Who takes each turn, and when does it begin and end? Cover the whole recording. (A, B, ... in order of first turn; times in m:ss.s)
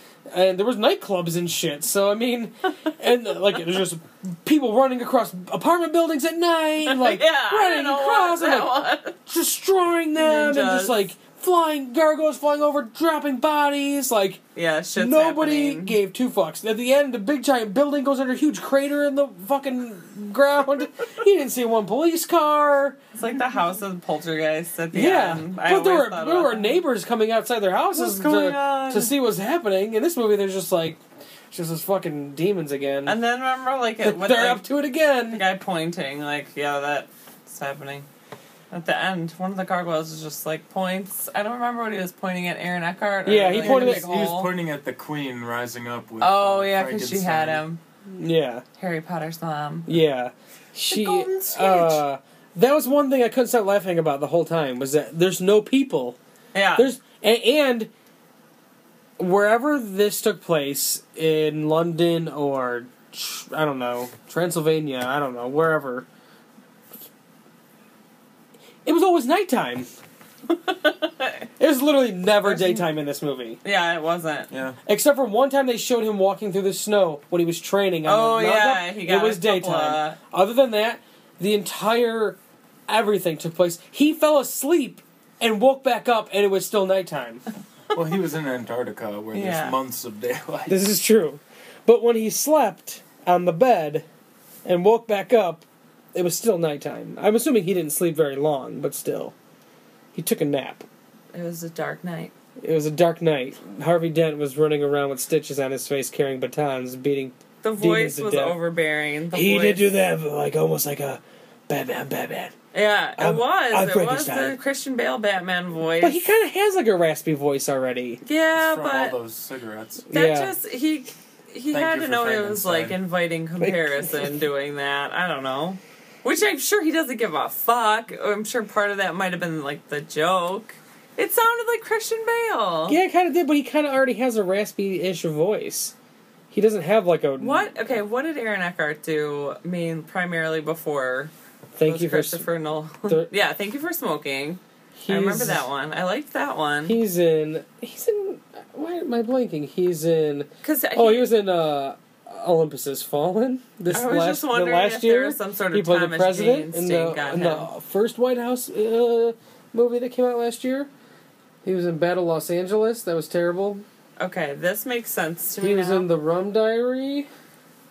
0:00.3-0:14.4 A
0:06.8-0:09.2 B
0:10.2-0:11.0 B
0:14.5-0:16.0 B
0:15.0-0:23.0 A
0:23.1-0:26.8 B
0:24.9-0:33.2 A
0:27.9-0:29.1 B
0:33.0-0:34.6 B
0:34.0-0:35.4 A
0:35.3-0:38.0 B
0:38.7-0:44.5 B
0:43.2-0:44.3 A
0:43.6-0:47.6 C
0:46.2-0:47.8 B
0:48.1-0:48.6 A
0:48.8-0:49.9 B
0:49.9-0:56.2 A
0:50.9-0:52.0 B
0:56.5-0:56.9 B
0:56.8-0:57.9 A
0:59.2-1:06.0 A
1:08.8-1:09.9 A
1:10.7-1:11.4 B
1:11.6-1:13.6 A
1:12.4-1:12.9 B
1:13.6-1:14.5 B
1:14.5-1:14.8 C
1:14.8-1:27.4 A
1:18.0-1:20.2 B
1:27.9-1:30.8 C
1:29.3-1:29.8 B
1:30.7-1:34.0 A
1:34.6-1:39.3 A
1:40.1-1:40.8 A
1:41.3-1:42.3 B
1:42.6-1:48.6 A
1:47.6-1:49.9 B
1:49.3-1:52.5 A
1:52.7-1:56.3 B
1:53.2-1:54.6 A
1:56.0-1:58.2 A
1:58.2-1:59.1 B
1:58.5-2:00.0 C
2:00.0-2:00.5 A
2:00.1-2:13.0 B
2:01.7-2:03.0 C
2:03.6-2:04.4 A
2:12.9-2:15.9 A
2:16.5-2:17.7 A
2:17.4-2:21.3 B
2:21.7-2:22.5 A
2:21.8-2:27.0 B
2:25.0-2:25.6 A
2:26.8-2:40.9 A
2:30.6-2:31.3 B
2:33.9-2:37.7 B
2:41.6-2:43.8 A
2:44.2-2:46.1 B
2:45.6-2:47.3 A